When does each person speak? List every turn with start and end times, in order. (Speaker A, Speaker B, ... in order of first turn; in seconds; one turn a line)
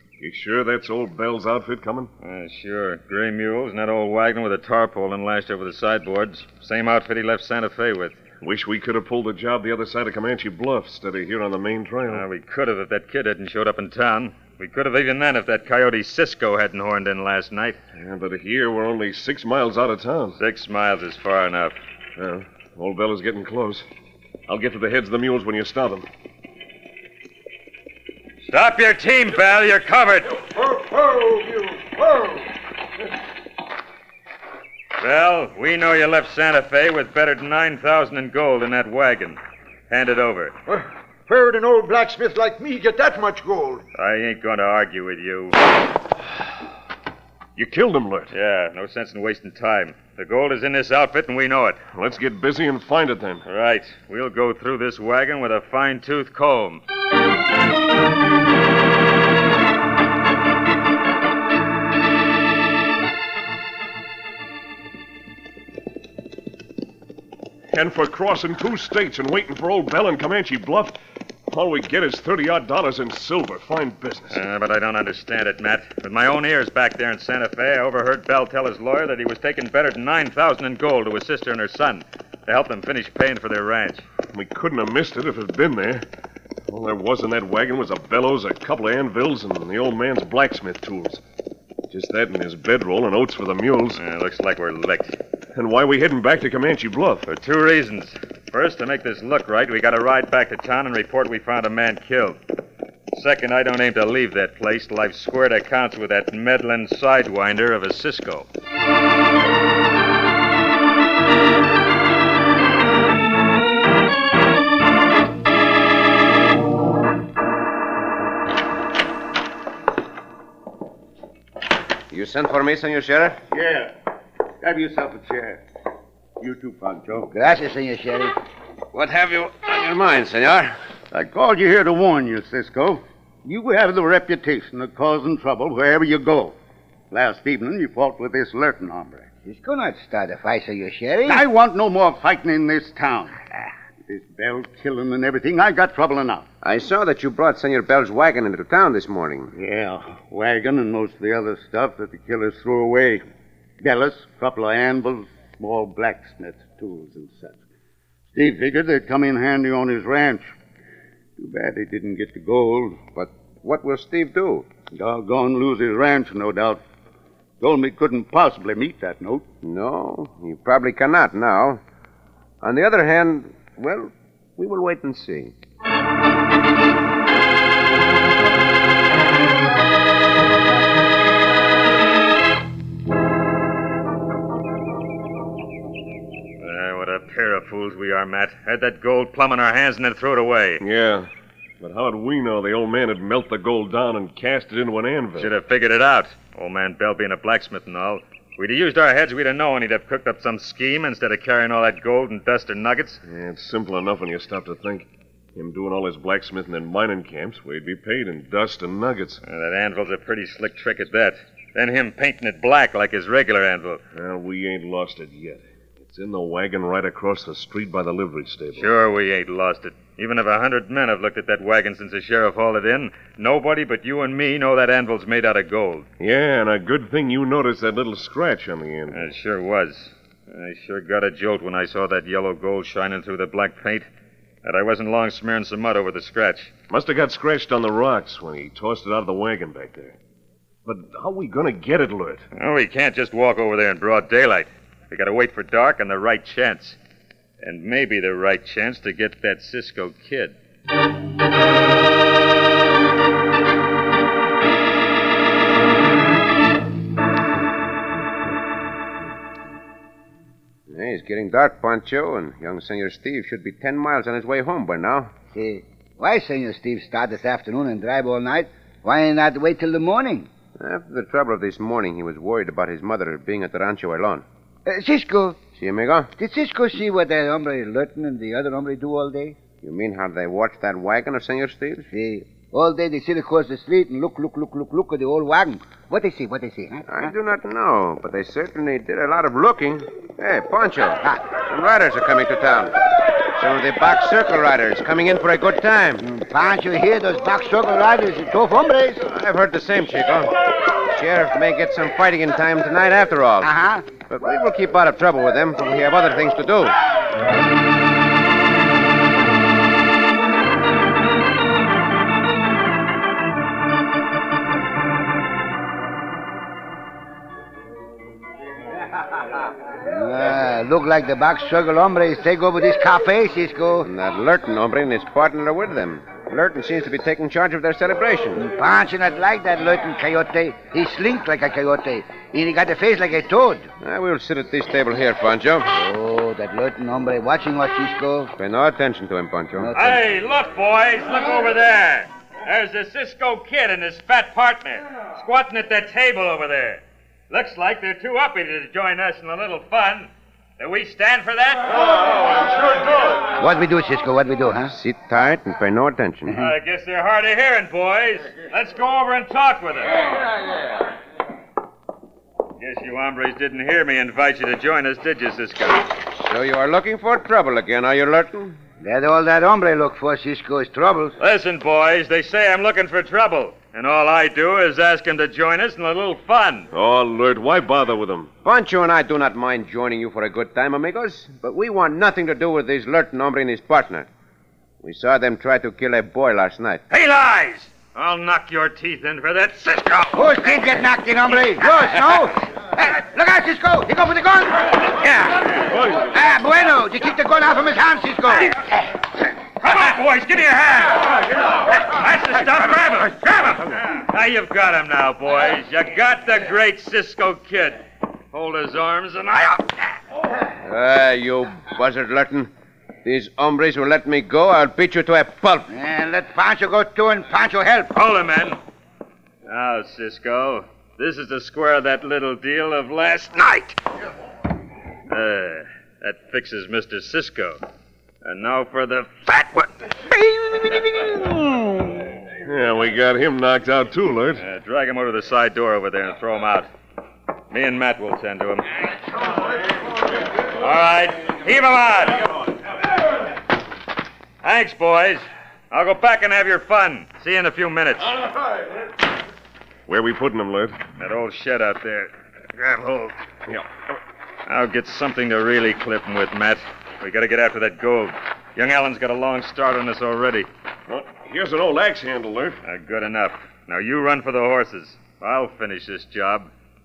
Speaker A: 0.2-2.1
Speaker B: 2.2-8.2
Speaker A: 8.4-12.2
Speaker B: 12.1-17.8
Speaker A: 17.9-20.4
Speaker B: 20.4-21.7
Speaker A: 22.2-23.9
Speaker A: 24.5-26.1
Speaker B: 28.4-30.4
Speaker C: 30.9-31.9
Speaker B: 35.0-40.5
Speaker C: 40.7-43.8
Speaker B: 43.9-45.6
Speaker A: 47.5-48.3
Speaker B: 48.3-51.8
Speaker A: 51.9-53.4
Speaker B: 53.5-56.8
Speaker A: 67.7-71.0
Speaker A: 71.5-74.4
Speaker B: 74.3-84.0
Speaker A: 84.3-86.0
Speaker A: 86.7-91.2
Speaker A: 91.9-94.0
Speaker B: 94.0-95.2
Speaker A: 95.5-97.3
Speaker B: 97.3-102.4
Speaker B: 103.1-108.5
Speaker D: 122.1-123.4
Speaker E: 123.5-123.9
Speaker E: 124.6-125.6
Speaker E: 126.4-127.3
Speaker F: 127.2-128.3
Speaker D: 128.9-130.8
Speaker E: 131.1-136.6
Speaker E: 137.1-139.3
Speaker F: 139.4-141.4
Speaker E: 141.2-143.4
Speaker E: 144.1-146.4
Speaker D: 146.6-149.5
Speaker E: 149.5-153.2
Speaker E: 153.8-157.6
Speaker E: 158.3-160.5
Speaker E: 161.4-163.0
Speaker D: 163.2-164.7
Speaker E: 164.9-166.8
Speaker E: 167.6-169.4
Speaker D: 169.6-171.8
Speaker D: 172.6-175.5
Speaker B: 186.6-190.8
Speaker A: 190.8-191.3
Speaker A: 191.8-195.5
Speaker B: 195.4-203.2
Speaker A: 203.2-209.4
Speaker B: 209.4-214.0
Speaker A: 214.1-218.9
Speaker B: 218.8-226.1
Speaker A: 226.2-229.2
Speaker B: 229.1-234.1
Speaker B: 234.6-236.7
Speaker A: 236.9-240.2
Speaker A: 240.8-242.4
Speaker B: 242.5-247.0
Speaker B: 247.6-250.6
Speaker D: 260.9-265.3
Speaker F: 265.5-270.5
Speaker D: 270.8-274.4
Speaker F: 274.9-275.6
Speaker D: 275.8-276.3
Speaker F: 276.4-279.6
Speaker D: 279.8-282.1
Speaker F: 282.1-287.3
Speaker D: 287.1-292.9
Speaker D: 293.6-296.2
Speaker F: 296.2-299.2
Speaker D: 299.3-303.7
Speaker F: 303.6-304.1
Speaker D: 304.3-306.9
Speaker F: 320.0-324.1
Speaker D: 324.0-328.6
Speaker F: 328.6-333.9
Speaker D: 334.0-335.9
Speaker F: 335.9-338.5
Speaker D: 338.6-339.9
Speaker F: 339.8-340.2
Speaker B: 339.9-352.9
Speaker F: 353.5-354.9
Speaker D: 354.9-356.6
Speaker B: 356.6-360.4
Speaker B: 362.8-366.1
Speaker D: 366.4-368.8
Speaker F: 369.0-371.4
Speaker B: 371.4-376.9
Speaker A: 376.9-378.5
Speaker D: 378.6-384.3
Speaker D: 385.0-387.0
Speaker B: 387.1-390.7
Speaker F: 390.3-395.0
Speaker D: 395.2-395.7
Speaker F: 396.2-398.7
Speaker B: 399.8-410.1
Speaker D: 410.8-412.7
Speaker D: 413.2-415.9
Speaker F: 415.9-418.1
Speaker B: 418.1-418.8
Speaker B: 419.6-424.0
Speaker B: 425.3-427.8
Speaker B: 428.4-431.6
Speaker A: 432.6-434.6
Speaker B: 434.6-436.9
Speaker B: 437.7-439.1
Speaker B: 440.6-442.8
Speaker B: 444.6-448.4
Speaker A: 450.1-451.0
Speaker B: 451.2-453.4
Speaker B: 454.6-460.7
Speaker A: 461.1-462.8
Speaker B: 462.8-466.7